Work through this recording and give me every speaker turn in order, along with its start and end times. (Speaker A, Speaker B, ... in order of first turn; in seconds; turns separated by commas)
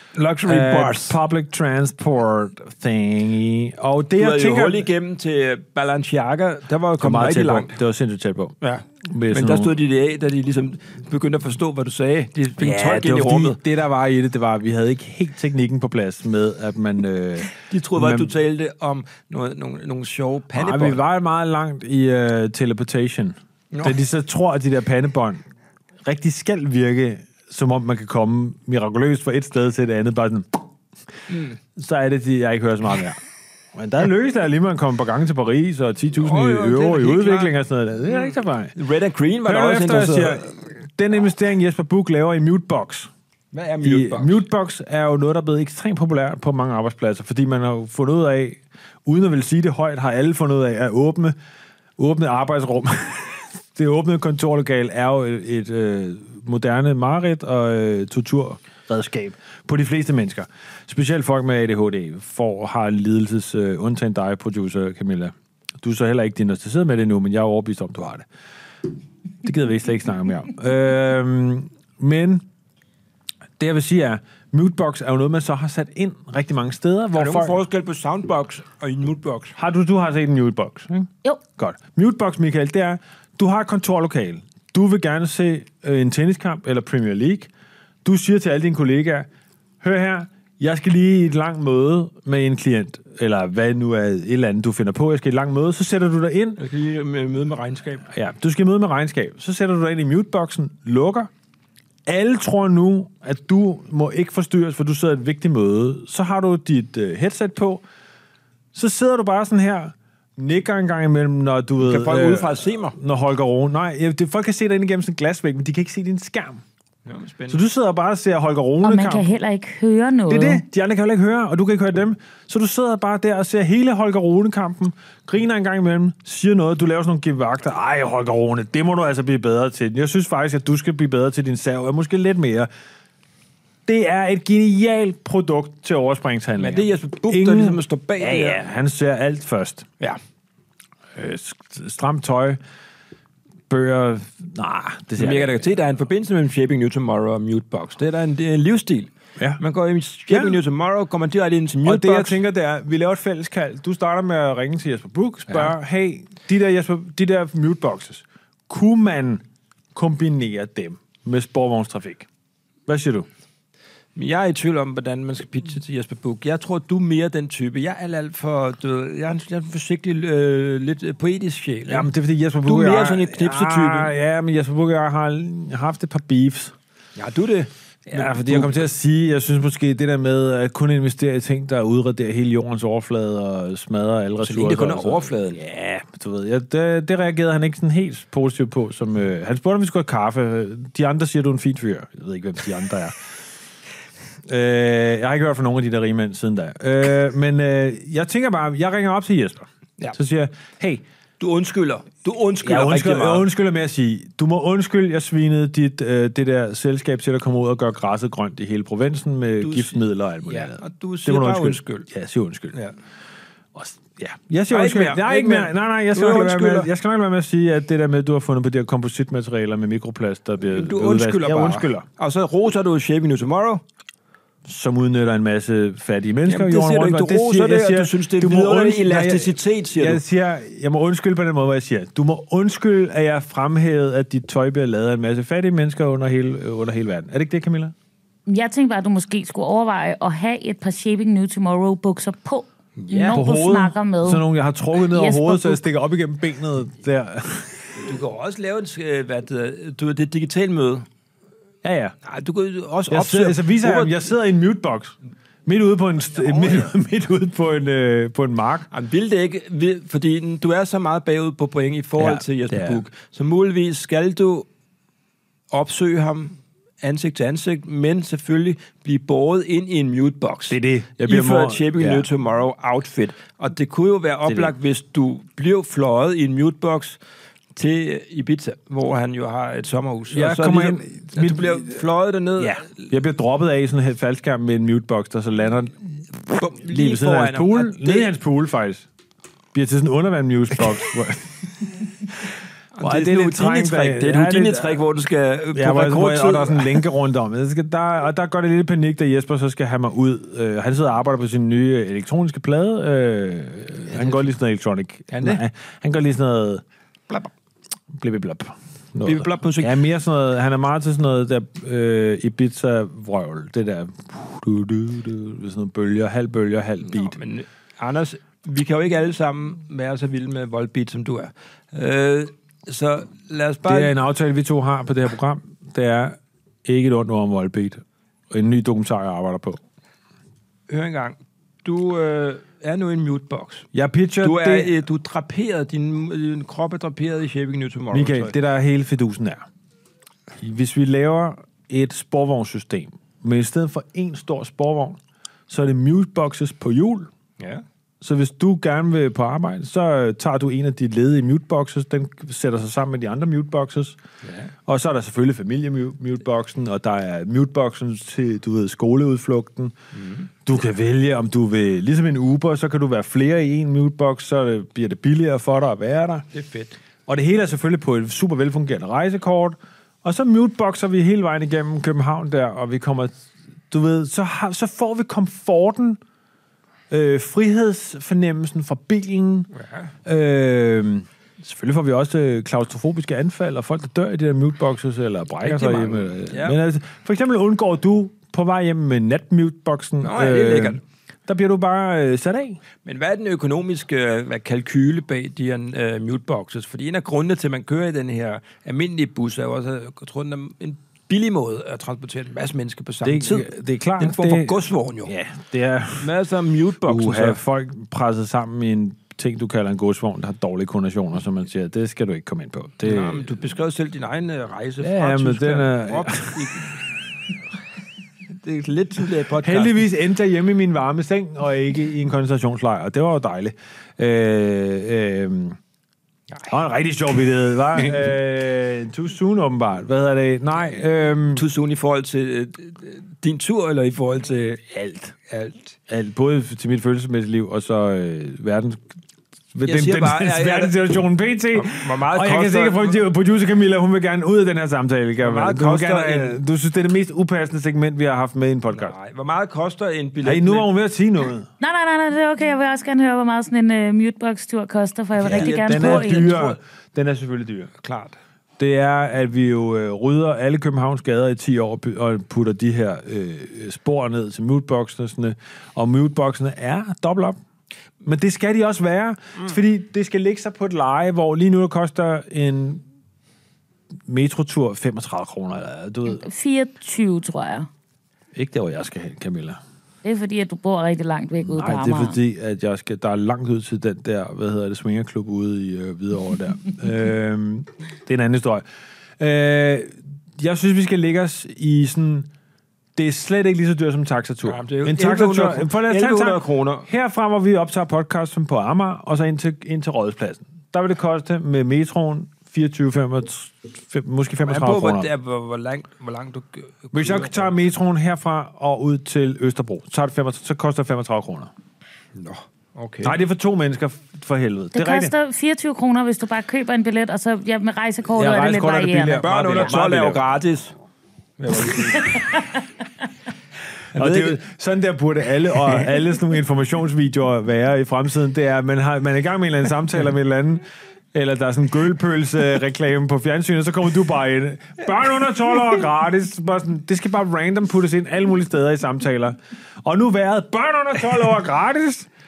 Speaker A: 0.1-1.2, Speaker B: 0.5-4.9, Speaker A: 4.2-7.8, Speaker B: 7.0-9.8, Speaker A: 8.6-13.6, Speaker B: 12.6-18.3, Speaker A: 17.5-21.0, Speaker B: 20.5-25.4, Speaker B: 26.0-30.6, Speaker A: 31.3-31.6, Speaker B: 31.8-33.2, Speaker B: 33.8-38.8, Speaker A: 36.1-40.4, Speaker B: 39.5-43.1, Speaker A: 43.5-44.4, Speaker B: 43.8-51.4, Speaker B: 52.0-68.3, Speaker B: 69.4-72.5, Speaker B: 73.6-77.6, Speaker A: 77.2-79.6, Speaker B: 79.6-87.5, Speaker B: 88.0-89.3, Speaker B: 89.8-96.6, Speaker A: 96.6-98.1, Speaker B: 98.1-101.3, Speaker B: 102.1-107.8, Speaker B: 108.7-116.6, Speaker A: 111.8-113.0, Speaker A: 117.1-117.6, Speaker B: 117.5-119.3, Speaker C: 118.8-120.6, Speaker B: 120.3-132.7, Speaker B: 133.9-139.9, Speaker A: 136.6-138.6, Speaker B: 141.2-142.6, Speaker B: 143.7-145.7, Speaker A: 145.2-152.4, Speaker B: 150.3-150.6, Speaker B: 151.8-159.4, Speaker A: 155.5-155.7, Speaker B: 159.9-162.3, Speaker B: 162.9-163.3, Speaker A: 164.2-172.1, Speaker B: 171.9-176.7, Speaker A: 172.7-174.1, Speaker A: 177.2-178.9, Speaker B: 178.1-193.2, Speaker A: 184.4-185.6, Speaker B: 194.5-201.0, Speaker A: 201.4-203.5, Speaker B: 202.6-212.8, Speaker A: 209.6-212.1, Speaker B: 213.7-222.1, Speaker A: 214.7-216.9, Speaker A: 220.7-223.8, Speaker B: 224.7-237.9, Speaker A: 226.5-230.2, Speaker C: 238.5-244.5, Speaker A: 243.0-243.4, Speaker B: 243.3-247.8, Speaker C: 245.0-245.8, Speaker A: 248.0-251.1, Speaker B: 251.8-252.2, Speaker A: 252.2-254.2, Speaker B: 253.1-258.9, Speaker A: 256.3-256.9, Speaker A: 258.9-264.7, Speaker B: 262.2-263.0, Speaker A: 265.7-277.2, Speaker B: 270.7-272.3, Speaker B: 274.5-274.7, Speaker A: 277.8-283.1, Speaker B: 280.3-282.0, Speaker B: 282.6-289.1, Speaker A: 286.5-288.3, Speaker B: 289.7-292.0, Speaker A: 292.9-297.1, Speaker B: 293.0-295.0, Speaker B: 295.7-306.8, Speaker A: 304.1-304.5, Speaker A: 305.3-305.6, Speaker B: 308.1-317.4, Speaker A: 309.2-310.0, Speaker A: 317.0-324.1, Speaker B: 323.9-329.8, Speaker A: 330.9-333.9, Speaker B: 333.9-335.0, Speaker A: 334.4-338.6, Speaker B: 338.1-339.6, Speaker B: 340.6-347.3, Speaker A: 347.6-347.8, Speaker B: 348.2-354.2, Speaker A: 354.4-354.7, Speaker B: 354.9-359.9, Speaker A: 360.1-360.5, Speaker B: 360.6-366.5, Speaker A: 366.5-367.0, Speaker B: 367.3-376.2, Speaker B: 377.1-379.7, Speaker A: 379.7-380.1, Speaker B: 380.2-392.8, Speaker A: 385.6-386.8, Speaker A: 390.2-391.0, Speaker A: 393.1-405.3, Speaker B: 403.2-406.3, Speaker A: 406.2-407.6, Speaker B: 407.0-413.5, Speaker A: 413.0-417.0, Speaker B: 415.0-416.8, Speaker A: 418.5-420.0, Speaker B: 419.6-425.8, Speaker B: 426.7-431.6, Speaker A: 431.5-434.8, Speaker B: 434.8-435.4, Speaker A: 435.5-436.0, Speaker B: 436.1-439.0, Speaker B: 439.7-449.1, Speaker A: 439.9-441.0, Speaker A: 441.8-443.3, Speaker A: 445.4-446.6, Speaker A: 448.9-450.9, Speaker B: 450.4-451.7, Speaker C: 451.8-456.7, Speaker B: 455.4-457.9, Speaker A: 455.4-456.8, Speaker A: 458.0-458.4, Speaker B: 458.8-467.6, Speaker B: 468.2-473.0, Speaker B: 474.3-476.4, Speaker C: 476.4-477.9, Speaker B: 478.6-479.8, Speaker C: 480.2-482.4, Speaker B: 481.6-488.9, Speaker B: 489.4-492.5, Speaker B: 493.2-505.3, Speaker A: 494.6-497.1, Speaker A: 504.7-507.7, Speaker B: 507.1-511.7, Speaker A: 512.4-513.4, Speaker B: 513.2-515.3, Speaker C: 515.0-519.9, Speaker B: 518.3-520.4, Speaker A: 519.4-520.9, Speaker A: 521.6-522.5, Speaker A: 524.1-524.6, Speaker B: 524.2-542.3